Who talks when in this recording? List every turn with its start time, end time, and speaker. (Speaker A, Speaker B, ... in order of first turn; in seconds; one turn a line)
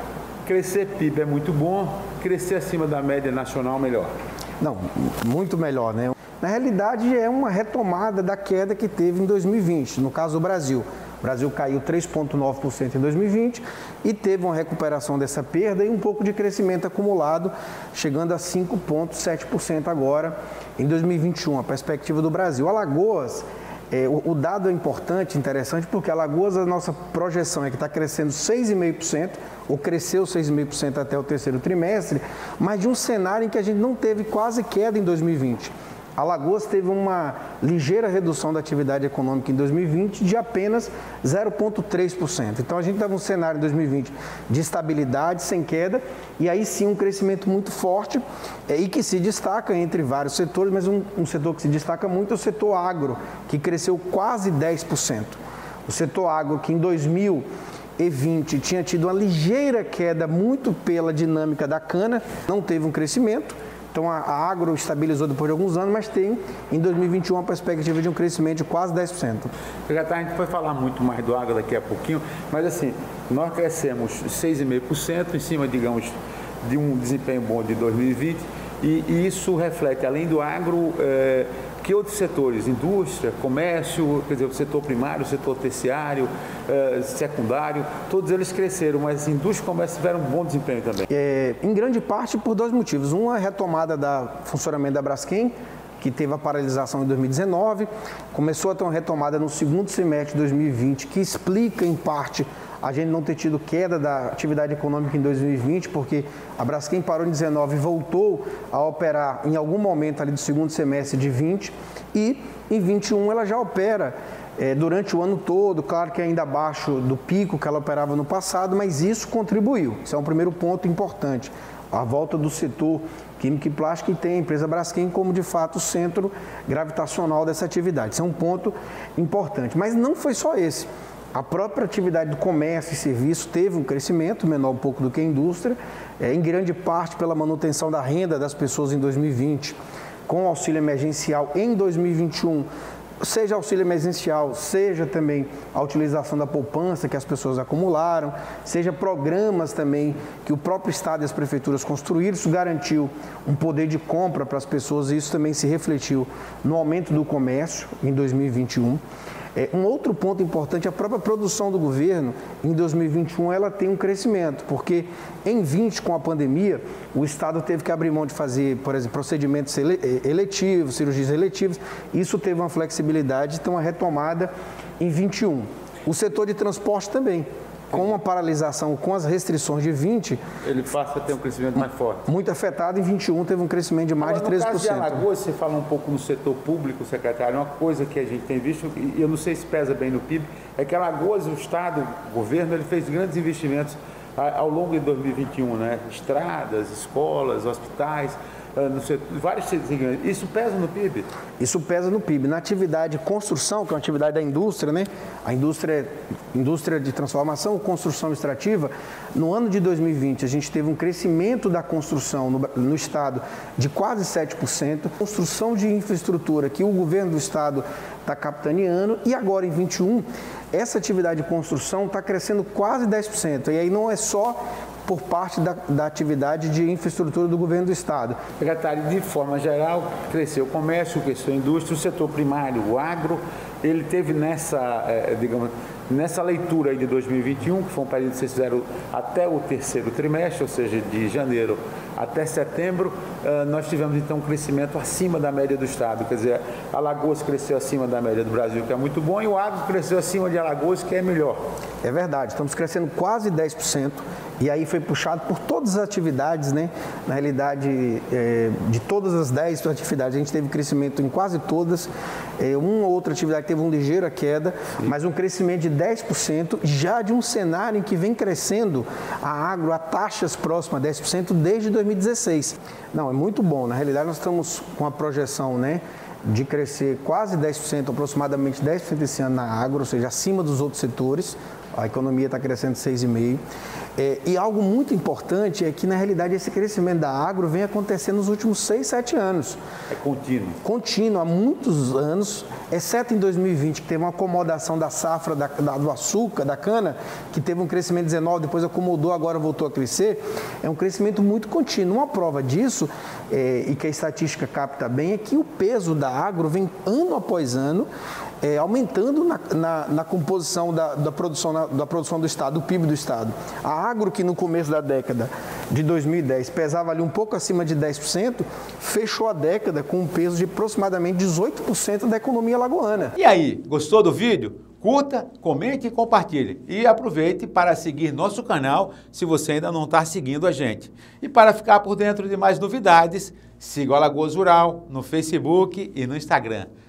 Speaker A: 0.4-4.1
Speaker B: 4.6-57.4
Speaker B: 58.0-69.5
Speaker A: 69.9-76.1
Speaker A: 76.6-91.1
Speaker B: 91.1-142.7
Speaker B: 143.2-159.0
Speaker B: 159.5-180.4
Speaker A: 180.6-182.2
Speaker B: 182.3-185.2
Speaker A: 184.2-201.3
Speaker B: 201.6-228.4
Speaker A: 228.6-251.6
Speaker B: 252.0-283.6
Speaker B: 284.2-289.8
Speaker A: 290.1-290.8
Speaker B: 290.8-308.1
Speaker B: 308.6-323.3
Speaker A: 323.4-336.9